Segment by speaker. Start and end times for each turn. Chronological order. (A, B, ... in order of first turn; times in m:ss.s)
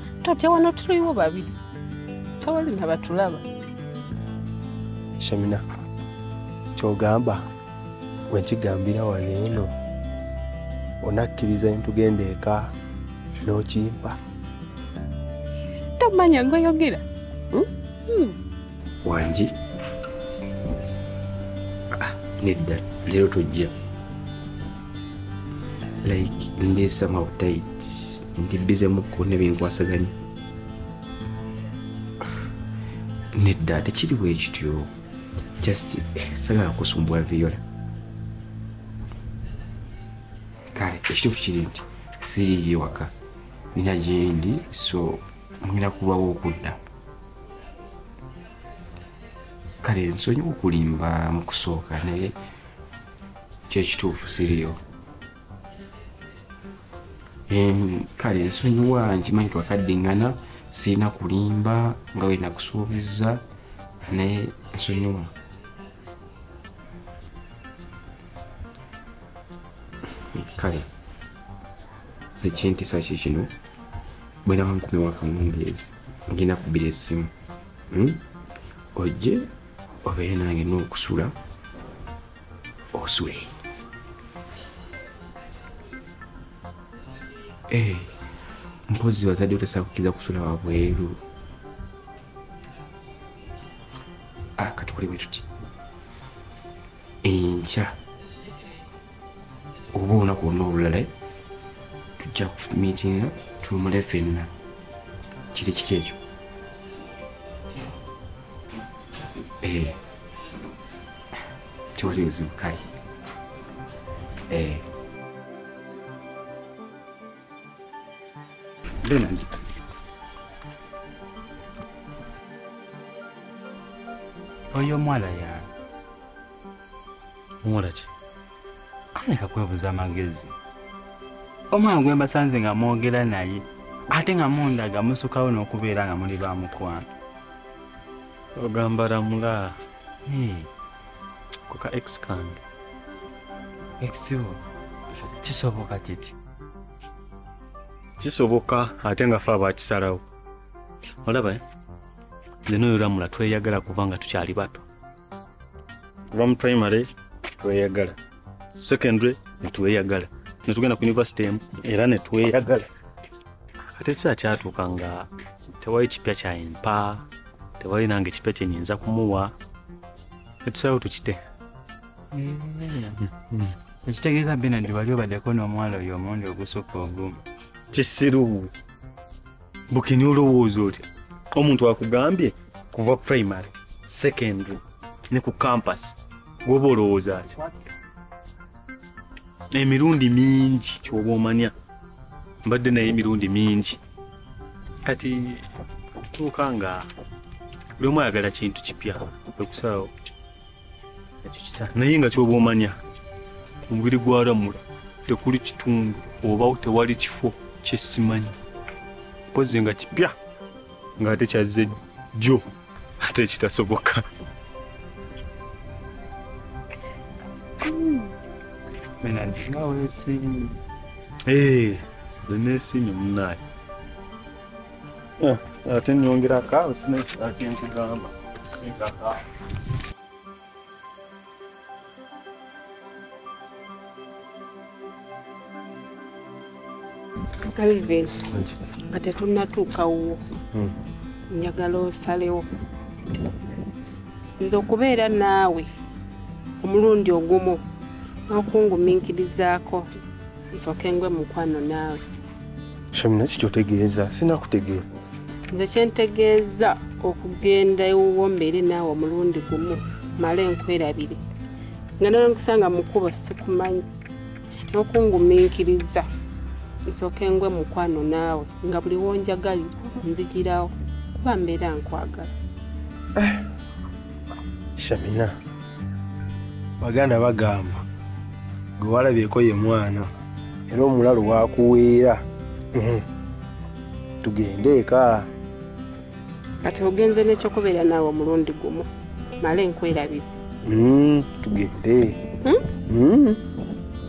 0:00.2-0:01.5 A
0:02.4-0:03.4 A
0:05.2-0:05.6 B
0:06.7-0:07.4 B
0:08.3-0:09.7 B
0:11.0-0:12.7 B
0:13.4-0:14.2 B
0:16.0-0:18.4 A
0:19.0-0:19.5 C
0:21.9-0:23.7 C
0:26.0-0:30.1 C
0:33.3-0:34.9 C
0:35.6-0:37.6 C
0:40.7-0:43.1 C
0:43.7-0:46.8 C
0:49.8-0:52.3 C
0:53.7-0:54.8 C
0:57.5-1:03.4 C
1:04.1-1:05.3 C
1:10.3-1:10.8 C
1:12.4-1:13.5 C
1:14.4-1:17.3 C
1:17.9-1:18.2 C
1:19.0-1:19.5 C
1:20.0-1:21.3 C
1:22.9-1:23.6 C
1:27.7-1:28.1 C
1:28.9-1:31.2 C
1:34.6-1:35.4 C
1:37.2-1:37.9 C
1:39.9-1:41.1 C
1:42.2-1:44.5 C
1:45.5-1:46.2 C
1:49.6-1:50.0 C
1:51.9-1:52.8 C
1:54.5-1:54.8 C
1:59.0-1:59.6 D
2:04.7-2:05.7 D
2:07.6-2:08.1 E
2:09.1-2:10.6 D
2:11.7-2:17.1 D
2:18.6-2:19.8 E
2:20.2-2:20.7 D
2:21.7-2:22.6 E
2:24.0-2:24.6 D
2:25.3-2:26.3 D
2:28.2-2:30.2 E
2:31.2-2:31.6 E
2:32.6-2:34.8 E
2:36.3-2:38.2 E
2:38.8-2:42.9 E
2:43.9-2:47.2 E
2:47.8-2:49.5 E
2:50.6-2:51.4 E
2:52.3-2:53.1 D
2:53.3-2:53.7 E
2:54.0-2:57.4 D
2:57.9-2:58.7 E
2:59.9-3:07.5 E
3:09.7-3:11.7 E
3:12.6-3:14.0 E
3:15.0-3:15.6 E
3:16.3-3:17.1 E
3:18.0-3:20.1 E
3:21.4-3:23.0 E
3:23.9-3:28.6 E
3:29.5-3:30.3 E
3:31.2-3:32.6 E
3:33.2-3:34.2 E
3:39.2-3:40.8 D
3:41.4-3:43.6 E
3:45.4-3:49.4 E
3:57.7-3:58.5 A
3:58.5-3:58.8 B
3:59.1-4:00.4 A
4:01.5-4:02.6 A
4:04.6-4:05.9 A
4:06.8-4:07.8 A
4:08.5-4:10.0 A
4:10.7-4:12.2 A
4:13.1-4:15.0 B
4:15.7-4:21.4 A
4:22.2-4:24.0 A
4:24.9-4:26.2 A
4:27.1-4:32.5 A
4:33.4-4:33.6 B
4:35.0-4:35.5 B
4:37.0-4:38.0 B
4:39.0-4:40.3 B
4:40.9-4:42.4 B
4:42.9-4:43.2 B
4:44.4-4:45.5 B
4:46.8-4:49.1 A
4:49.6-4:50.5 A
4:50.8-4:52.4 B
4:53.1-4:53.6 B